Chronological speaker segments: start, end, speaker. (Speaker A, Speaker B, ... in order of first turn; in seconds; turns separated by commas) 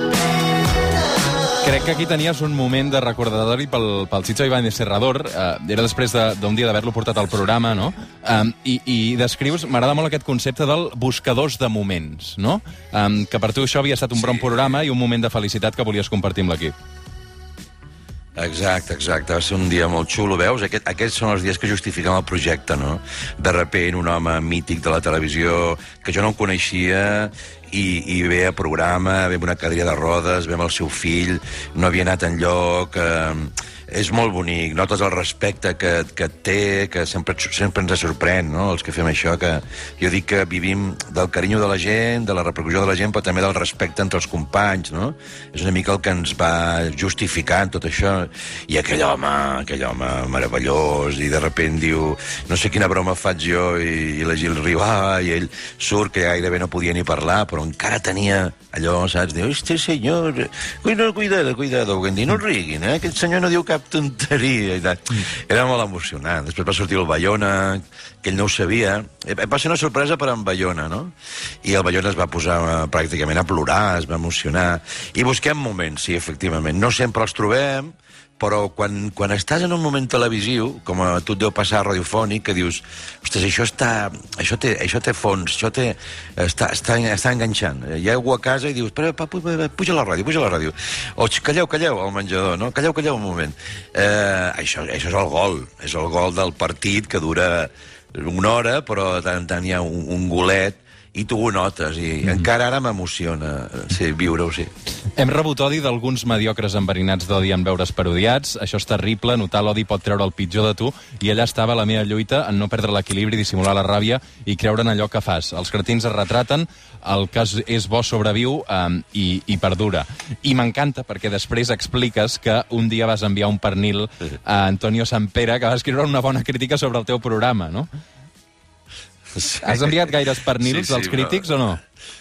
Speaker A: 1.6-16.7, Speaker B: 14.1-14.5, Speaker B: 18.4-104.7, Speaker A: 105.1-127.9, Speaker B: 129.3-130.0, Speaker A: 129.6-131.8, Speaker B: 130.6-131.4